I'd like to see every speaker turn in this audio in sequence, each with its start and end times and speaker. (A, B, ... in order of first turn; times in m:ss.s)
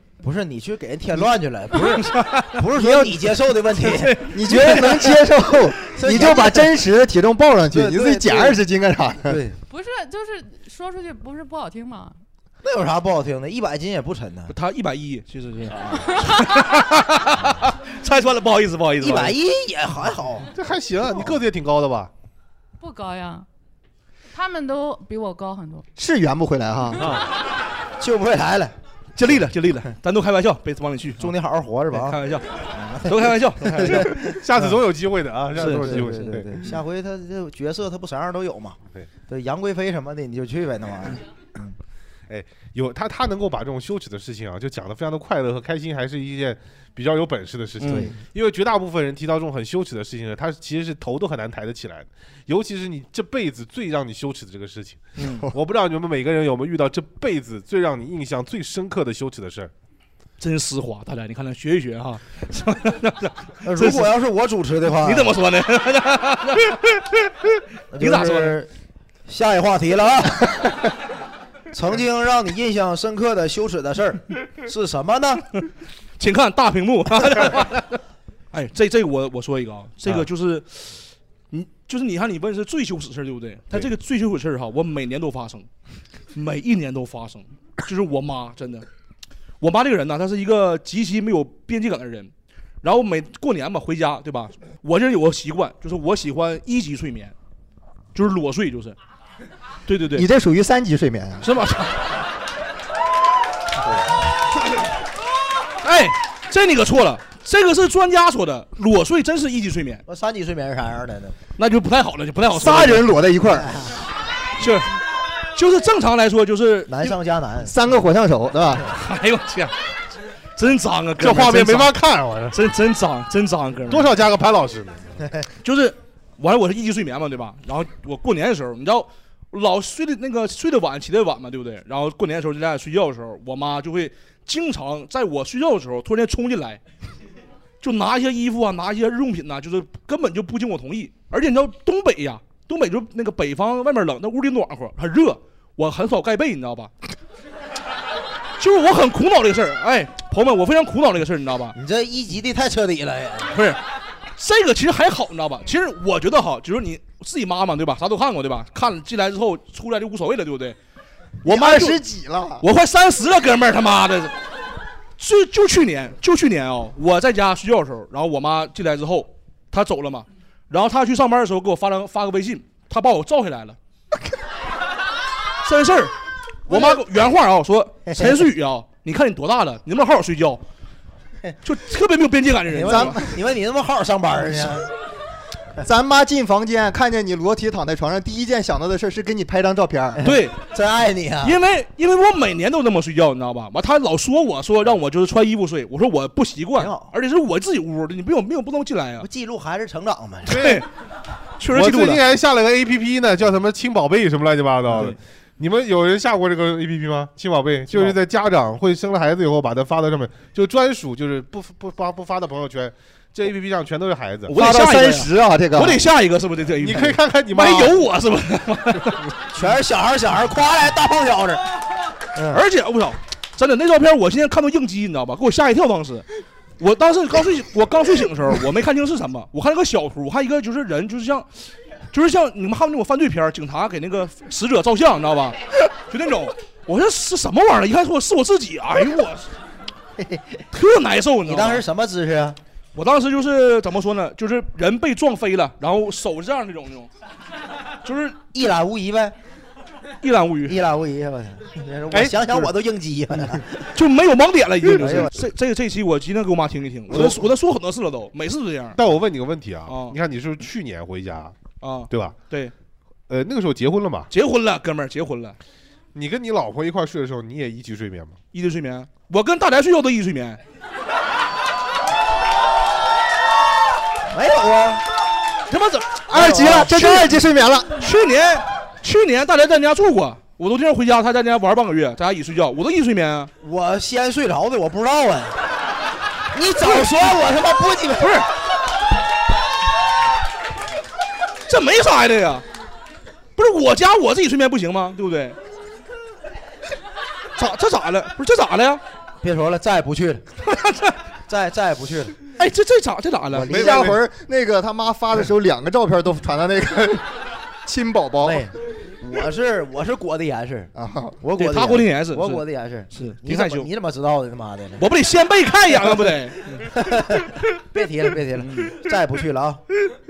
0:00.2-0:05.0 A
0:02.0-0:02.6 B
0:02.8-0:03.1 C
0:03.7-0:05.1 B
0:04.3-0:09.4 C
0:05.9-0:06.7 A
0:07.7-0:08.6 A
0:09.2-0:09.6 A
0:09.7-0:12.2 D
0:12.6-0:14.5 A
0:14.5-0:19.4 B
0:15.7-0:16.2 A
0:16.1-0:16.6 D
0:19.0-0:20.5 A
0:20.5-0:22.1 E
0:22.8-0:23.5 D
0:24.3-0:25.8 D
0:26.0-0:27.1 C
0:28.0-0:28.7 A
0:29.2-0:31.3 B
0:31.2-0:32.2 A
0:31.9-0:34.1 B
0:32.7-0:34.3 A
0:33.7-0:36.5 E
0:35.5-0:36.2 B
0:35.6-0:41.7 A
0:42.3-0:59.7 E
0:47.8-0:48.2 B
0:55.2-0:55.5 B
1:00.4-1:04.1 B
1:03.6-1:05.3 A
1:05.0-1:07.2 B
1:07.9-1:08.7 A
1:08.0-1:08.6 B
1:09.2-1:10.8 A
1:11.7-1:15.4 A
1:16.2-1:18.0 B
1:18.5-1:25.7 B
1:26.3-1:28.8 B
1:29.6-1:37.3 B
1:38.1-1:39.0 B
1:39.9-1:40.2 B
1:40.1-1:41.5 C
1:41.4-1:42.1 B
1:45.8-1:50.0 B
1:50.0-1:51.4 A
1:51.6-1:53.1 B
1:52.5-1:53.9 C
1:54.6-1:54.9 B
1:55.5-1:57.1 B
1:56.9-1:57.7 A
1:57.6-1:58.9 C
1:58.9-1:59.8 B
2:00.6-2:01.9 B
2:01.2-2:02.6 E
2:02.5-2:04.1 B
2:03.9-2:05.2 E
2:05.6-2:16.8 B
2:17.8-2:26.9 B
2:28.6-2:31.7 B
2:31.7-2:33.5 A
2:33.5-2:33.8 B
2:34.4-2:40.8 B
2:41.4-2:42.0 B
2:41.4-2:42.6 C
2:42.6-2:44.3 B
2:45.2-2:53.8 B
2:55.6-2:56.1 B
2:56.7-3:00.6 B
2:56.7-2:57.0 A
3:01.6-3:03.2 B
3:02.7-3:04.9 A
3:05.8-3:10.3 C
3:10.2-3:11.6 A
3:10.2-3:10.6 B
3:11.4-3:19.3 B
3:16.8-3:17.1 A
3:19.2-3:20.6 A
3:20.5-3:20.9 B
3:20.5-3:20.8 E
3:21.6-3:22.2 B
3:21.7-3:34.5 E
3:24.9-3:25.2 B
3:27.9-3:28.2 B
3:34.5-3:39.3 B
3:34.5-3:36.0 C
3:36.8-3:38.0 E
3:39.5-3:41.6 A
3:42.5-3:46.3 B
3:46.8-3:59.5 B
4:00.7-4:01.8 B
4:01.4-4:02.6 A
4:02.9-4:07.1 B
4:08.0-4:08.4 B
4:08.5-4:09.3 A
4:10.2-4:10.8 B
4:10.6-4:13.8 A
4:12.1-4:12.5 E
4:13.9-4:19.0 B
4:15.0-4:15.3 A
4:19.0-4:21.6 E
4:19.9-4:20.2 B
4:21.8-4:22.7 B
4:22.1-4:22.4 E
4:23.3-4:24.3 E
4:24.3-4:25.6 B
4:26.1-4:28.4 E
4:28.5-4:30.6 B
4:34.3-4:35.0 A
4:35.7-4:37.4 B
4:36.3-4:38.0 C
4:36.3-4:37.0 A
4:38.0-4:43.5 B
4:43.6-4:45.6 A
4:46.5-4:48.4 A
4:46.8-4:47.1 B
4:51.7-4:52.6 B
4:53.6-4:55.6 B
4:57.6-4:59.0 B
4:59.4-5:00.4 A
5:00.6-5:01.2 B
5:01.5-5:02.4 A
5:02.6-5:03.9 B
5:03.5-5:07.3 C
5:03.7-5:04.2 E
5:03.7-5:04.0 A
5:07.8-5:08.7 C
5:08.4-5:15.0 A
5:10.9-5:11.4 C
5:11.6-5:13.9 B
5:15.0-5:16.9 B
5:16.9-5:19.8 A
5:18.6-5:19.0 B